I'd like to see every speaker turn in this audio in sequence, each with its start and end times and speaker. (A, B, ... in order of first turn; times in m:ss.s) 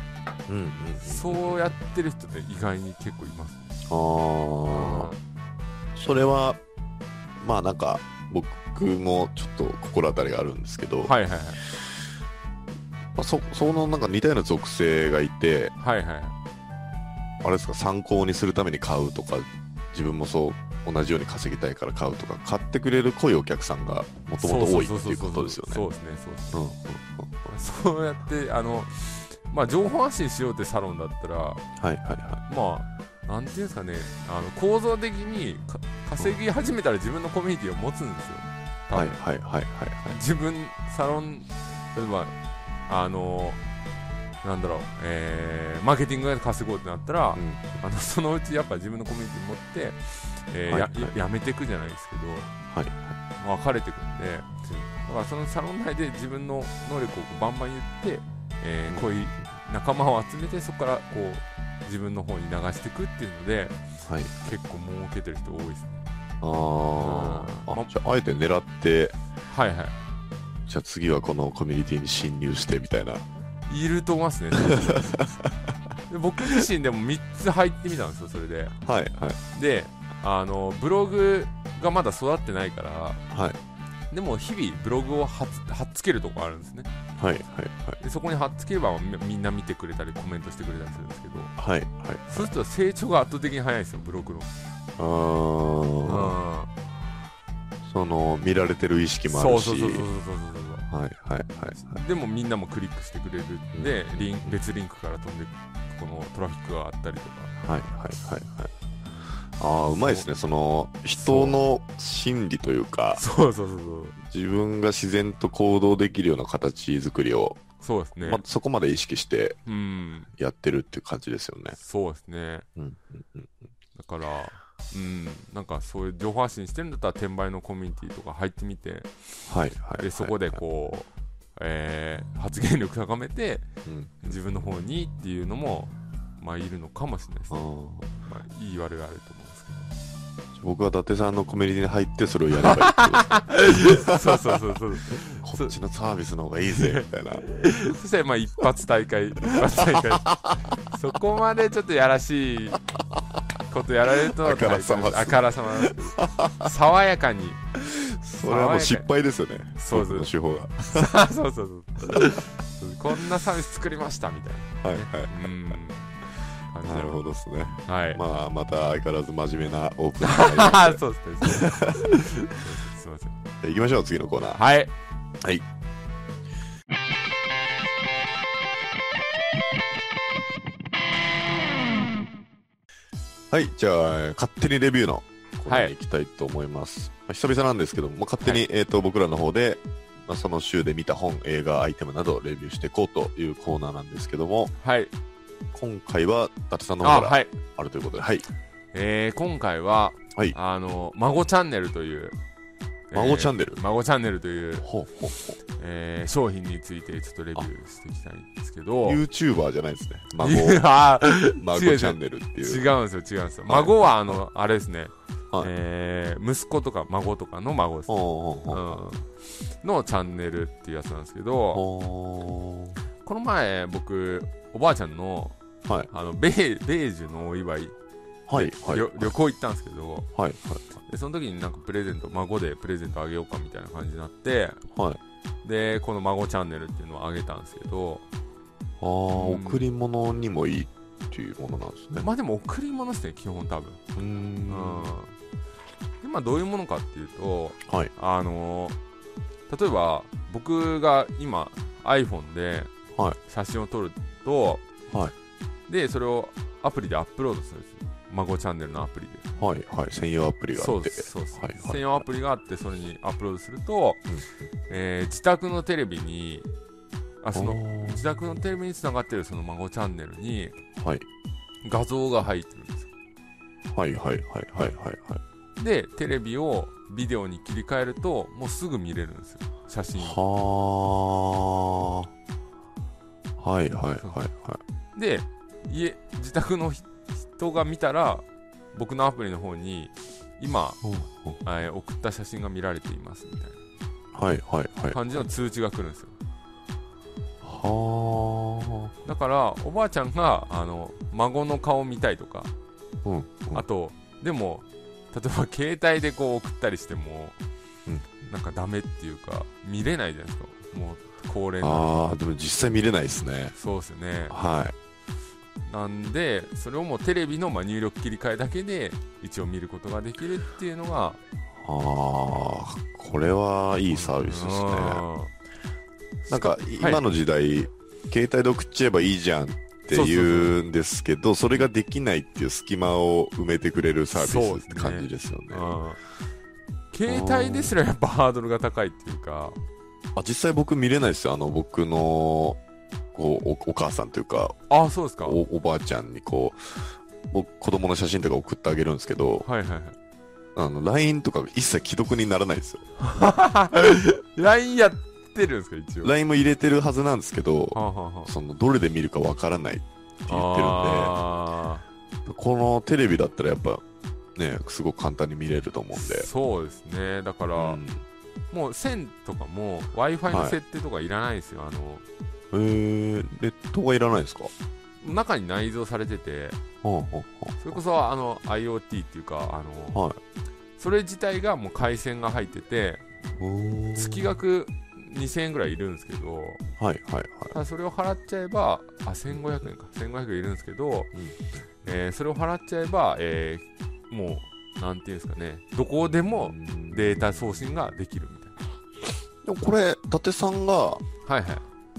0:00.5-0:01.7 A
0:01.0-0:03.7 B
0:03.9-0:05.1 A
0:04.7-0:05.2 B
0:06.0-0:06.6 A
0:07.4-0:11.1 A
0:11.0-0:11.6 B
0:13.2-0:15.7 A
0:15.8-0:16.4 B
0:17.4-0:25.8 A
0:24.4-0:26.6 B
0:26.5-0:27.5 A
0:27.5-0:31.6 B
0:31.8-0:32.4 A
0:32.5-0:39.2 B
0:38.9-0:40.2 A
0:40.1-0:42.3 B
0:42.9-0:43.6 B
0:44.4-0:52.5 B
0:47.4-0:47.8 A
0:50.7-0:51.1 A
0:52.7-0:53.1 A
0:53.4-0:54.5 B
0:55.0-1:03.8 B
0:58.9-0:59.1 A
1:04.0-1:04.3 A
1:04.4-1:06.0 B
1:06.4-1:09.2 A
1:07.0-1:07.9 B
1:09.5-1:10.0 B
1:10.7-1:13.2 A
1:13.7-1:15.1 B
1:14.6-1:15.6 A
1:16.1-1:18.7 B
1:18.8-1:19.4 A
1:19.5-1:23.2 B
1:23.3-1:23.6 A
1:24.1-1:26.9 B
1:27.2-1:28.0 A
1:28.0-1:31.5 B
1:31.6-1:32.5 A
1:32.3-1:34.5 B
1:35.0-1:36.4 A
1:36.0-1:36.7 B
1:37.9-1:40.1 A
1:39.3-1:40.9 B
1:40.9-1:42.0 A
1:41.7-1:47.5 B
1:43.7-1:44.6 A
1:47.6-1:48.7 A
1:49.6-1:53.2 A
1:50.0-1:50.3 B
1:51.2-1:51.6 B
1:53.2-1:54.2 B
1:54.2-1:57.6 A
1:57.8-1:58.4 B
1:58.2-1:59.6 A
1:59.7-2:00.3 B
2:00.4-2:01.8 A
2:01.8-2:02.7 B
2:02.8-2:03.6 A
2:04.0-2:09.1 B
2:09.5-2:10.6 A
2:10.0-2:13.7 B
2:13.8-2:14.4 A
2:14.2-2:17.6 B
2:17.5-2:18.1 A
2:18.2-2:19.9 B
2:20.6-2:24.5 A
2:22.6-2:25.8 B
2:25.4-2:27.5 A
2:26.7-2:32.8 B
2:29.8-2:30.6 A
2:33.7-2:37.6 B
2:34.2-2:36.7 A
2:37.8-2:41.1 A
2:38.4-2:39.1 B
2:39.8-2:40.3 B
2:40.9-2:46.1 B
2:42.1-2:42.4 A
2:44.8-2:45.5 A
2:46.7-2:47.2 B
2:46.8-2:52.3 A
2:47.9-2:48.2 B
2:50.2-2:53.4 B
2:53.6-2:54.6 A
2:54.6-2:54.9 B
3:03.5-3:14.7 A
3:05.7-3:05.9 B
3:14.8-3:15.1 B
3:15.7-3:18.5 A
3:17.0-3:17.6 B
3:18.9-3:22.4 B
3:23.1-3:24.9 B
3:23.1-3:23.8 A
3:24.8-3:25.6 A
3:25.7-3:29.2 B
3:29.0-3:30.8 A
3:30.4-3:38.2 B
3:31.6-3:32.8 A
3:33.7-3:34.4 A
3:38.1-3:39.0 A
3:38.7-3:41.8 B
3:41.7-3:43.0 A
3:43.2-3:45.6 B
3:46.1-3:48.0 B
3:48.5-3:49.3 A
3:48.5-3:50.3 B
3:50.4-3:50.8 A
3:51.0-3:54.8 B
3:54.9-3:55.2 A
3:55.6-3:58.2 B
3:59.0-4:02.3 A
3:59.3-3:59.9 B
4:02.2-4:04.0 B
4:04.2-4:05.1 A
4:04.7-4:05.3 B
4:06.2-4:09.0 B
4:09.7-4:12.9 B
4:13.4-4:14.8 B
4:15.9-4:19.5 B
4:19.6-4:22.2 A
4:20.8-4:24.3 B
4:24.9-4:26.7 B
4:27.4-4:30.8 B
4:27.6-4:28.2 A
4:31.0-4:31.2 A
4:31.8-4:33.1 B
4:33.9-4:35.4 A
4:35.8-4:40.4 B
4:40.2-4:42.3 A
4:43.6-4:44.8 A
4:45.2-4:51.0 B
4:51.0-4:51.6 A
4:51.6-4:53.8 B
4:54.3-4:55.4 A
4:55.1-4:56.3 B
4:57.6-4:59.1 A
4:59.2-5:02.7 B
5:03.2-5:03.8 A
5:03.7-5:07.6 B
5:08.5-5:12.4 B
5:11.8-5:13.8 A
5:13.8-5:14.6 B
5:14.5-5:15.0 A
5:15.9-5:21.4 B
5:21.8-5:25.2 A
5:24.1-5:25.5 B
5:26.5-5:27.2 B
5:26.5-5:35.9 A
5:30.1-5:30.8 B
5:34.3-5:36.2 B
5:37.1-5:39.8 B
5:37.3-5:38.0 A
5:40.4-5:42.8 A
5:43.3-5:44.8 A
5:44.9-5:45.6 B
5:45.4-5:49.7 A
5:49.6-5:50.2 B
5:50.8-5:53.0 A
5:53.2-5:56.3 B
5:56.2-6:01.4 A
5:57.9-5:58.5 B
6:00.5-6:02.0 B
6:02.5-6:04.0 A
6:04.6-6:06.5 A
6:06.1-6:08.0 B
6:07.8-6:08.2 A
6:08.7-6:12.2 B
6:10.5-6:10.8 A
6:12.7-6:14.7 A
6:15.2-6:16.8 B
6:17.0-6:18.0 A
6:17.8-6:20.2 B
6:20.1-6:20.4 A
6:21.0-6:23.2 B
6:23.6-6:24.5 A
6:24.2-6:26.8 B
6:27.0-6:27.7 A
6:27.7-6:31.3 B
6:32.0-6:38.8 B
6:36.6-6:37.9 A
6:39.6-6:41.2 A
6:41.4-6:41.8 B